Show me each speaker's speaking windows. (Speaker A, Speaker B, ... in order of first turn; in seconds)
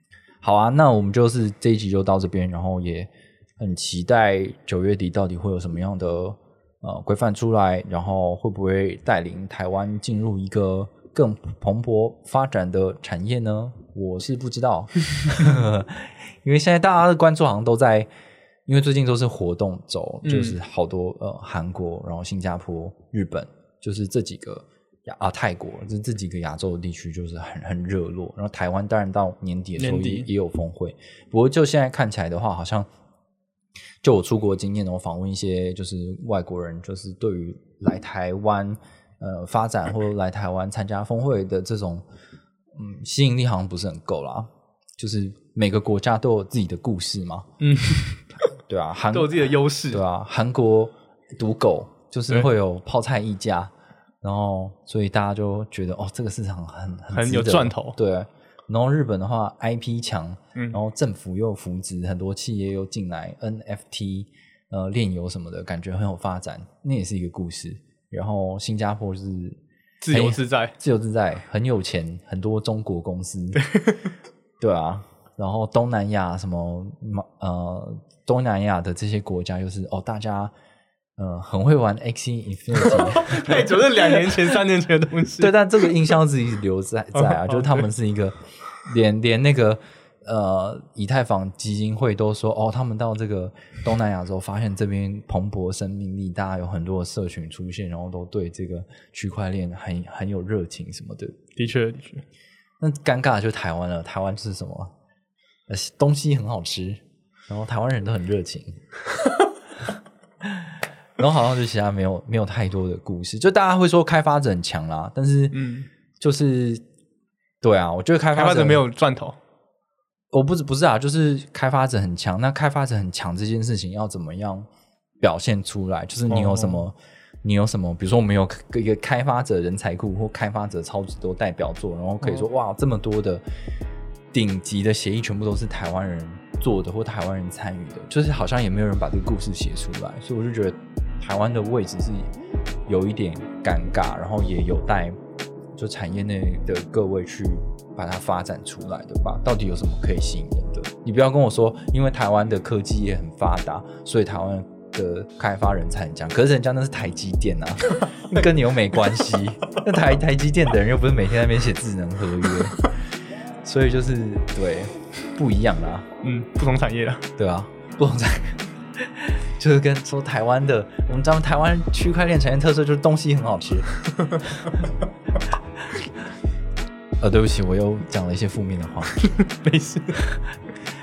Speaker A: 0.4-18.1, 18.7-32.9, 34.0-42.0, 42.7-47.5, 48.7-73.6, 74.6-80.5, 81.2-84.5, 85.4-101.4, 102.8-104.9, 105.7-108.8, 110.4-115.6, 116.2-116.8, 117.6-118.8, 120.3-124.7, 125.2-133.4, 134.3-142.3, 142.9-145.2, 145.8-163.0, 163.6-166.1, 167.4-173.9, 174.4-174.8, 177.2-179.1
Speaker B: 20.2-20.6, 29.8-30.3, 47.6-48.2, 49.1-50.0, 57.1-58.0, 60.5-60.8, 70.0-70.7, 73.5-74.0, 82.9-85.6, 87.4-87.8, 101.5-102.2, 115.5-115.9, 118.3-119.4, 126.3-126.8, 166.2-167.3, 179.2-180.3